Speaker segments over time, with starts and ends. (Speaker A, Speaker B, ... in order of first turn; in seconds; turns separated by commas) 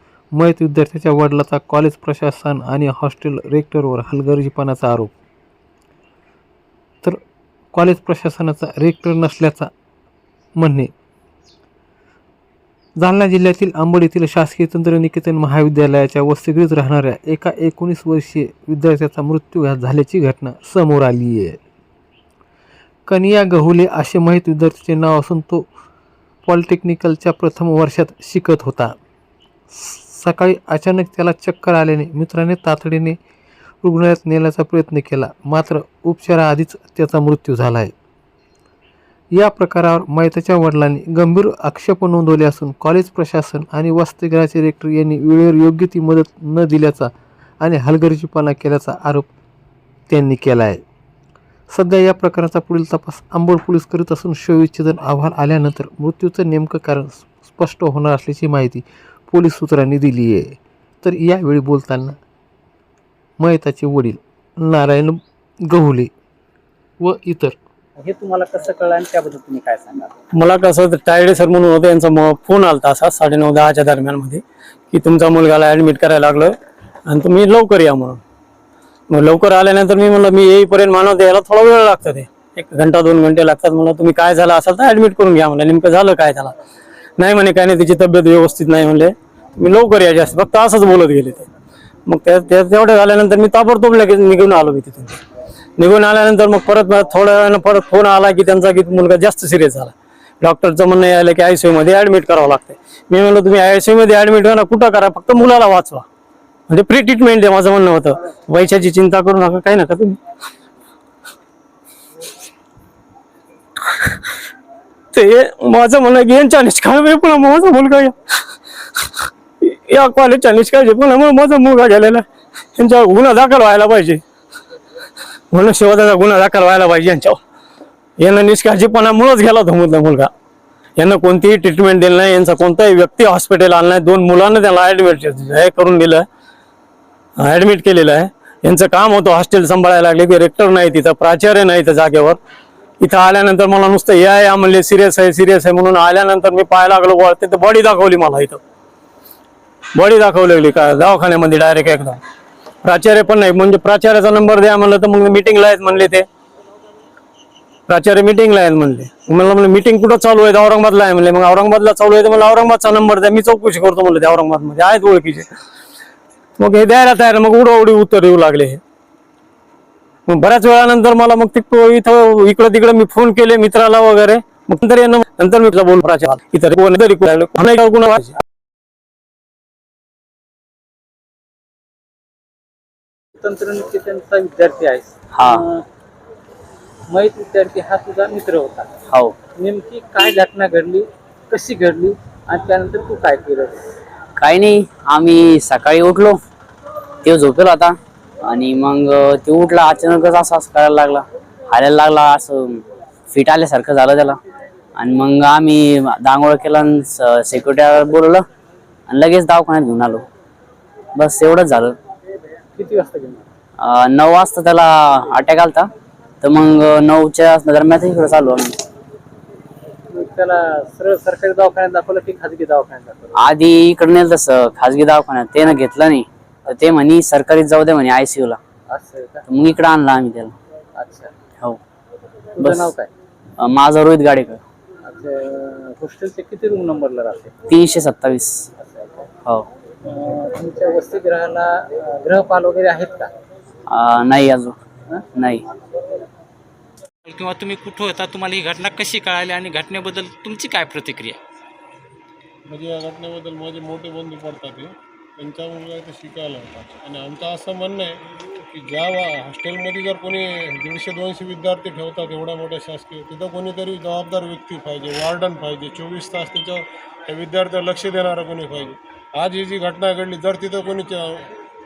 Speaker A: 0.3-5.1, Speaker A: 7.7-9.7, Speaker A: 10.6-10.9, Speaker A: 13.0-21.6, Speaker A: 23.1-25.7, Speaker A: 26.5-28.9, Speaker A: 29.7-33.2, Speaker A: 33.8-37.9, Speaker A: 39.3-49.3, Speaker A: 50.1-50.8, Speaker A: 51.7-62.2, Speaker A: 63.4-66.1, Speaker A: 67.0-67.6, Speaker B: 68.0-70.2, Speaker C: 70.3-76.6, Speaker C: 77.1-78.2, Speaker C: 79.1-86.5, Speaker C: 87.2-91.5, Speaker C: 92.1-95.2, Speaker C: 95.8-106.0, Speaker C: 106.7-110.2, Speaker C: 115.1-118.1, Speaker C: 119.6-122.2, Speaker C: 122.8-124.2, Speaker C: 125.5-127.4, Speaker C: 128.2-130.3, Speaker C: 131.0-136.2, Speaker C: 137.4-142.4, Speaker C: 143.0-148.6, Speaker C: 149.9-152.2, Speaker C: 152.8-156.3, Speaker C: 157.9-165.5, Speaker C: 166.6-168.8, Speaker C: 170.3-178.3, Speaker B: 183.4-185.8, Speaker B: 187.1-193.9, Speaker D: 194.4-196.4, Speaker D: 197.2-202.8, Speaker D: 203.3-204.4, Speaker D: 205.0-208.4, Speaker D: 209.1-210.2, Speaker D: 211.2-212.0, Speaker B: 212.8-213.5, Speaker D: 213.8-215.9, Speaker D: 216.4-218.8, Speaker B: 220.1-223.3, Speaker D: 223.4-228.6, Speaker B: 226.7-227.1, Speaker B: 228.9-229.4, Speaker D: 229.5-230.5, Speaker B: 231.0-231.3, Speaker B: 232.6-233.1, Speaker D: 232.6-232.9, Speaker D: 233.6-234.6, Speaker B: 235.1-237.5, Speaker D: 237.7-238.6, Speaker B: 238.8-239.4, Speaker B: 240.1-243.3, Speaker D: 243.9-244.8, Speaker D: 245.4-245.6, Speaker E: 247.3-251.4, Speaker F: 252.7-271.4